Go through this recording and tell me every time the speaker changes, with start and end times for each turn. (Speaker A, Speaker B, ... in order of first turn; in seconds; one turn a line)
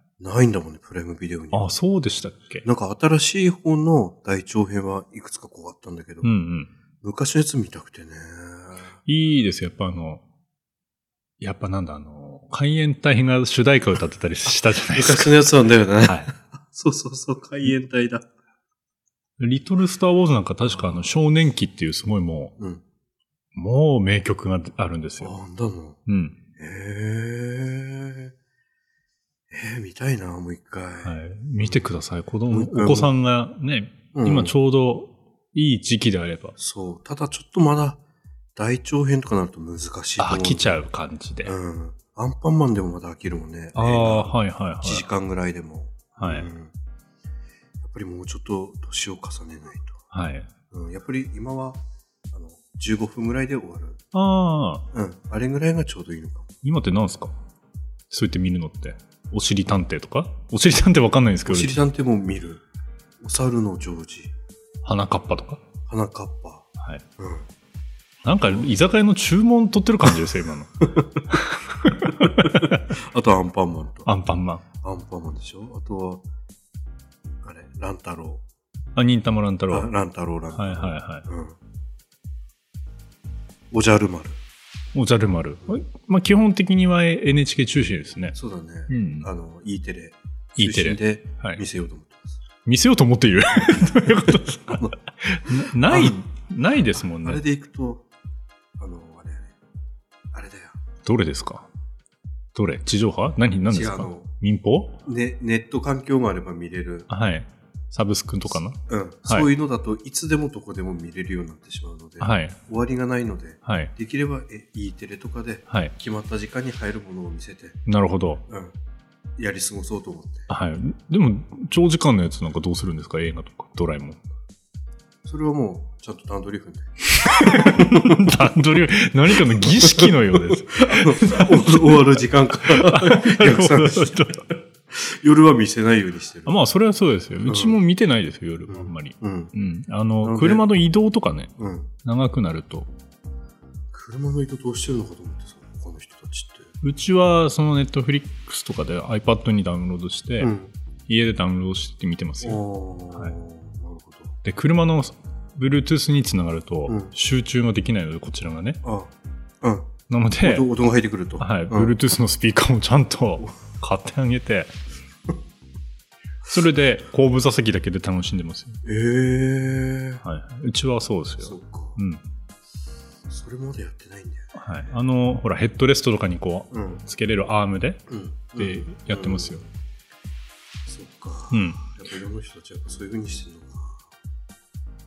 Speaker A: 0.2-1.7
Speaker B: 1.5-2.6
Speaker A: 2.6-6.3
Speaker B: 6.2-6.7
Speaker A: 7.0-8.9
Speaker B: 9.1-10.2
Speaker B: 11.4-15.4
Speaker A: 14.9-18.3
Speaker B: 16.0-16.3
Speaker B: 19.4-22.5
Speaker A: 20.7-21.1
Speaker B: 23.5-25.3
Speaker A: 25.2-26.0
Speaker B: 26.1-26.4
Speaker A: 26.6-28.3
Speaker A: 29.5-31.9
Speaker B: 31.0-36.5
Speaker A: 32.5-33.1
Speaker A: 34.1-34.5
Speaker A: 36.6-38.0
Speaker A: 38.5-40.8
Speaker B: 40.2-41.5
Speaker A: 41.4-46.7
Speaker B: 43.7-45.1
Speaker B: 46.2-46.5
Speaker A: 47.8-50.0
Speaker B: 50.1-50.5
Speaker A: 50.7-54.0
Speaker B: 54.1-54.8
Speaker A: 54.9-56.5
Speaker B: 56.6-57.4
Speaker B: 58.1-61.8
Speaker A: 61.5-62.6
Speaker A: 63.2-64.3
Speaker B: 64.8-65.6
Speaker A: 65.8-67.5
Speaker B: 66.8-67.0
Speaker B: 68.2-72.9
Speaker A: 72.2-74.1
Speaker B: 74.0-74.6
Speaker A: 74.8-76.2
Speaker A: 77.4-78.4
Speaker B: 78.9-79.9
Speaker A: 79.7-81.6
Speaker B: 80.5-81.2
Speaker A: 83.7-84.4
Speaker B: 84.9-88.3
Speaker A: 88.3-92.4
Speaker B: 88.9-89.3
Speaker B: 90.5-91.6
Speaker B: 92.6-97.4
Speaker A: 94.7-95.0
Speaker A: 95.8-96.2
Speaker A: 97.2-98.1
Speaker A: 98.8-99.5
Speaker A: 100.3-100.8
Speaker B: 101.0-101.7
Speaker B: 102.5-105.0
Speaker A: 103.7-104.3
Speaker A: 105.0-107.1
Speaker B: 107.1-109.5
Speaker A: 108.9-117.8
Speaker B: 112.2-112.6
Speaker B: 113.6-113.9
Speaker B: 115.7-115.9
Speaker B: 117.8-118.4
Speaker A: 118.5-118.7
Speaker A: 119.4-120.5
Speaker B: 120.5-124.2
Speaker A: 125.2-128.3
Speaker B: 127.1-134.5
Speaker A: 129.4-134.2
Speaker A: 134.9-136.5
Speaker B: 136.4-141.5
Speaker A: 137.4-137.8
Speaker A: 138.7-139.5
Speaker A: 140.2-140.6
Speaker A: 141.6-141.9
Speaker B: 142.0-142.9
Speaker A: 143.9-146.7
Speaker B: 146.8-150.5
Speaker A: 150.4-150.7
Speaker B: 151.1-152.6
Speaker A: 152.4-154.3
Speaker B: 154.4-158.8
Speaker A: 156.9-157.1
Speaker A: 158.8-159.9
Speaker B: 160.1-160.7
Speaker A: 160.4-161.9
Speaker B: 161.4-164.7
Speaker B: 166.5-168.8
Speaker A: 168.8-170.2
Speaker B: 170.2-172.2
Speaker A: 171.4-172.0
Speaker A: 173.3-174.9
Speaker B: 174.5-178.0
Speaker A: 176.7-177.0
Speaker A: 178.1-179.6
Speaker B: 178.6-179.6
Speaker A: 180.8-184.1
Speaker B: 181.5-181.8